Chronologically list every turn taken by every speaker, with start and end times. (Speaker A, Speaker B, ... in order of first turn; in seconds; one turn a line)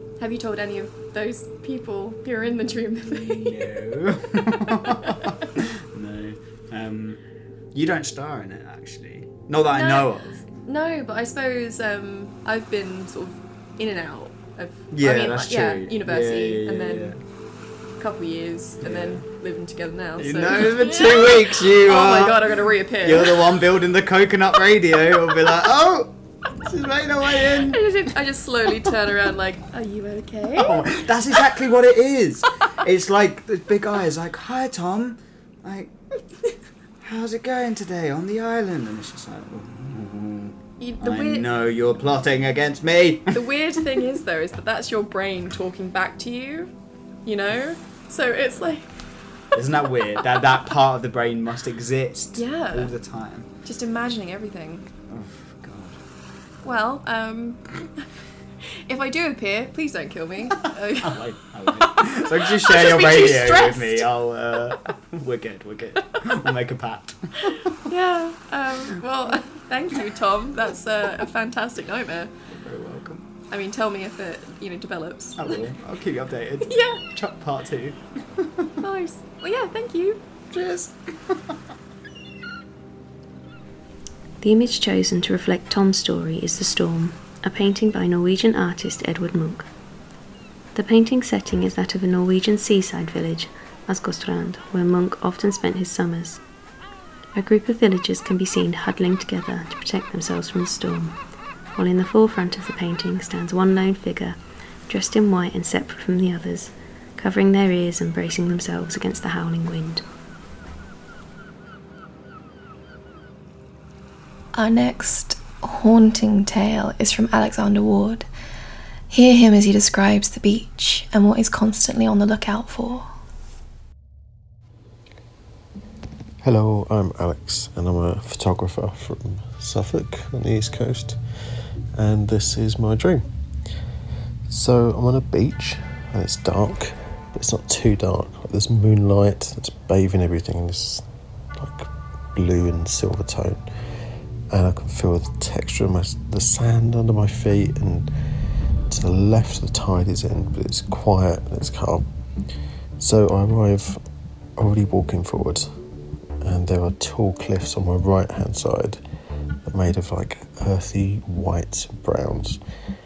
Speaker A: 0.2-3.7
Speaker B: 3.2-10.4
Speaker A: 9.7-23.5
Speaker B: 14.9-17.2
Speaker B: 18.8-19.3
Speaker B: 20.1-27.9
Speaker A: 27.7-31.0
Speaker B: 30.5-35.9
Speaker B: 37.0-43.4
Speaker A: 40.8-41.5
Speaker A: 43.3-49.5
Speaker B: 49.5-53.5
Speaker A: 52.3-54.9
Speaker B: 55.1-56.0
Speaker A: 56.6-58.0
Speaker A: 58.9-61.2
Speaker B: 61.0-67.5
Speaker A: 62.4-64.1
Speaker A: 67.9-72.3
Speaker B: 72.5-73.2
Speaker A: 73.5-75.6
Speaker B: 75.4-78.7
Speaker A: 76.6-77.0
Speaker A: 78.8-80.2
Speaker B: 80.5-81.5
Speaker C: 84.4-89.7
Speaker C: 90.7-96.4
Speaker C: 97.3-101.2
Speaker C: 101.7-110.0
Speaker D: 114.5-118.3
Speaker D: 119.1-123.1
Speaker E: 126.4-133.7
Speaker E: 134.4-162.6